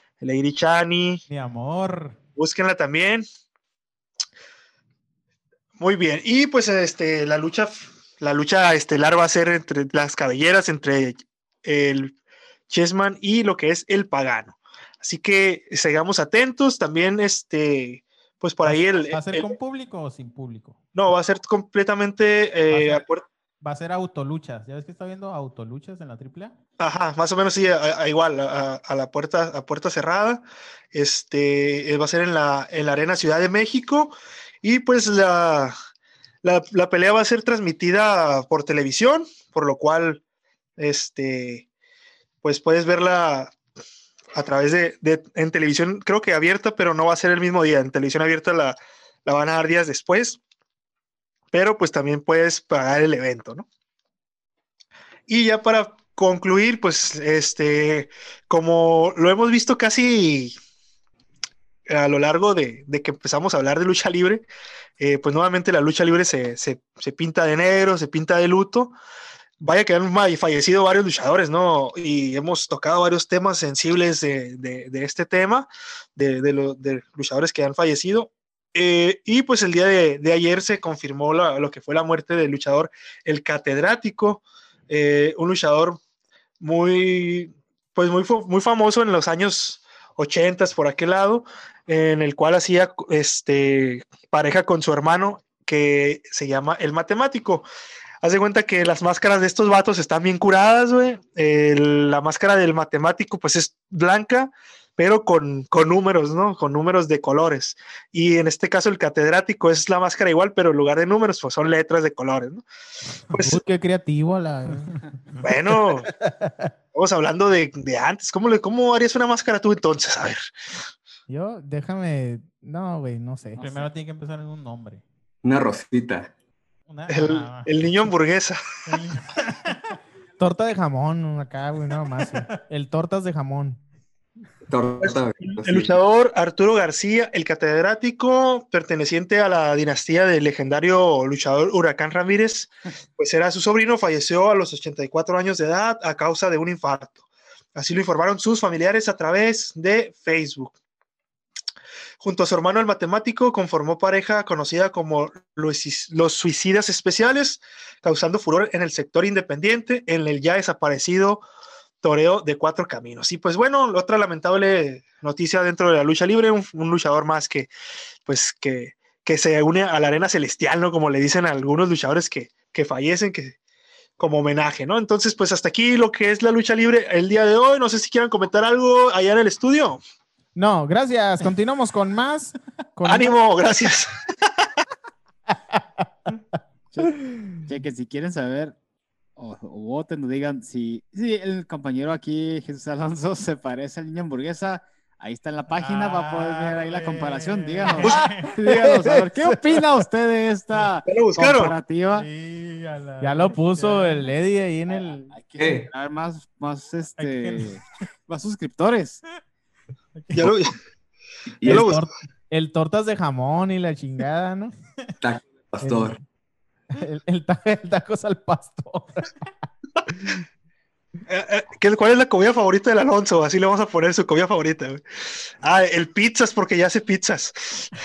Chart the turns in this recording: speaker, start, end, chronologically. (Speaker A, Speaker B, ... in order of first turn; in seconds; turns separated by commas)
Speaker A: 0.2-1.2, Speaker B: 1.3-2.2, Speaker A: 2.4-3.2, Speaker A: 5.8-12.2, Speaker A: 12.7-19.5, Speaker B: 18.6-20.8, Speaker A: 20.9-23.2, Speaker B: 22.7-23.0, Speaker B: 23.6-26.6, Speaker A: 26.8-35.8, Speaker A: 36.4-40.2, Speaker A: 40.8-41.7, Speaker A: 42.4-43.6, Speaker A: 44.3-50.4, Speaker A: 51.5-53.7, Speaker A: 55.3-60.5, Speaker A: 61.9-64.5, Speaker A: 65.0-68.9, Speaker A: 69.6-86.0, Speaker A: 86.6-97.7, Speaker A: 98.2-112.6, Speaker A: 113.3-113.6, Speaker C: 113.4-114.9, Speaker A: 115.4-116.1, Speaker C: 116.2-116.7, Speaker A: 116.9-120.4, Speaker C: 121.3-123.7, Speaker D: 123.6-123.8, Speaker B: 123.6-125.0, Speaker E: 125.4-126.3, Speaker B: 126.9-127.8, Speaker A: 127.1-128.7, Speaker B: 128.9-129.8, Speaker C: 130.4-133.8, Speaker E: 134.7-135.9, Speaker A: 135.0-150.7, Speaker A: 152.2-161.4, Speaker A: 162.0-167.7, Speaker A: 168.3-173.6, Speaker A: 174.2-180.0, Speaker C: 180.6-183.3, Speaker A: 183.1-184.1, Speaker D: 187.7-188.8, Speaker D: 189.4-202.3, Speaker B: 195.7-198.5, Speaker C: 198.3-199.8, Speaker A: 201.1-201.8, Speaker B: 202.1-204.2, Speaker C: 203.2-205.3, Speaker D: 204.9-209.2, Speaker E: 205.6-205.9, Speaker B: 207.2-207.8, Speaker B: 210.2-210.5, Speaker A: 210.3-210.8, Speaker E: 211.6-211.9, Speaker A: 211.7-212.1, Speaker C: 211.7-214.7, Speaker E: 215.2-216.2, Speaker C: 215.8-216.2, Speaker C: 216.9-219.3, Speaker A: 221.3-227.9